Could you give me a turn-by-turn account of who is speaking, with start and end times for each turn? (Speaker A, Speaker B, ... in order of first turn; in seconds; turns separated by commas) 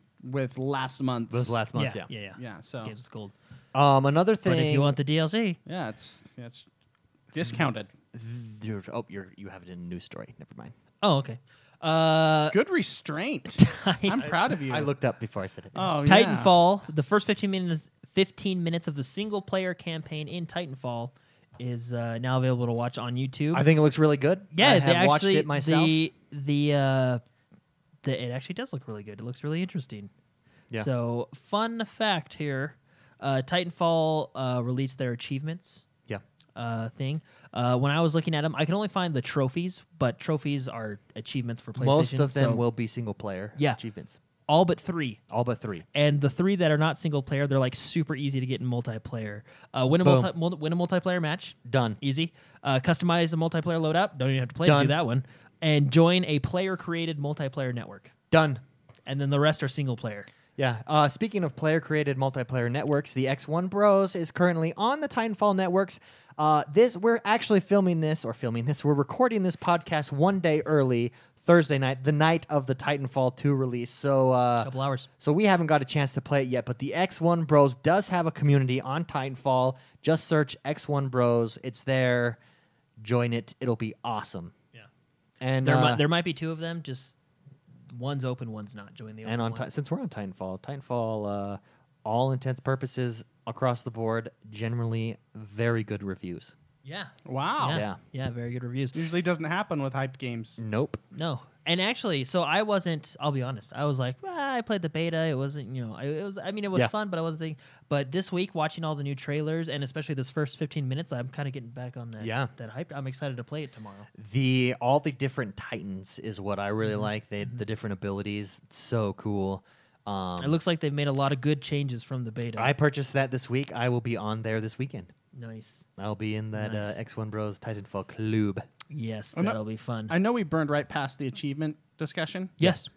Speaker A: 0.2-1.7, Speaker B: 1.3-2.1, Speaker C: 1.7-3.3, Speaker A: 2.4-2.9, Speaker B: 3.7-5.0, Speaker C: 4.5-5.6, Speaker A: 5.7-6.7, Speaker A: 7.3-7.9, Speaker B: 8.1-10.7, Speaker C: 11.0-12.6, Speaker A: 12.5-14.9, Speaker C: 13.6-14.3, Speaker B: 14.2-15.9, Speaker A: 15.8-16.5, Speaker C: 16.0-23.6, Speaker B: 23.5-26.0, Speaker C: 24.5-27.2, Speaker C: 28.0-30.1, Speaker C: 30.8-35.9, Speaker C: 36.6-42.6, Speaker B: 41.8-44.2, Speaker C: 44.5-45.2, Speaker B: 45.3-45.9, Speaker C: 45.9-58.1, Speaker B: 50.0-50.3, Speaker B: 51.6-52.0, Speaker B: 54.6-55.0, Speaker B: 58.3-58.6, Speaker C: 59.1-60.3, Speaker B: 60.6-82.4, Speaker C: 74.6-75.1, Speaker B: 83.0-84.5, Speaker B: 85.4-86.0, Speaker C: 85.6-87.1, Speaker C: 87.9-89.7, Speaker B: 89.2-96.5, Speaker C: 96.8-99.0, Speaker A: 97.3-97.8, Speaker B: 97.7-98.0, Speaker A: 98.9-100.6, Speaker B: 100.6-101.0, Speaker C: 101.1-114.1, Speaker B: 112.2-112.5, Speaker B: 114.1-120.6, Speaker C: 120.4-122.7, Speaker B: 122.6-125.1, Speaker C: 125.3-125.8, Speaker B: 126.0-128.7, Speaker C: 126.6-126.9, Speaker C: 128.9-130.1, Speaker A: 129.4-132.6, Speaker C: 132.6-132.9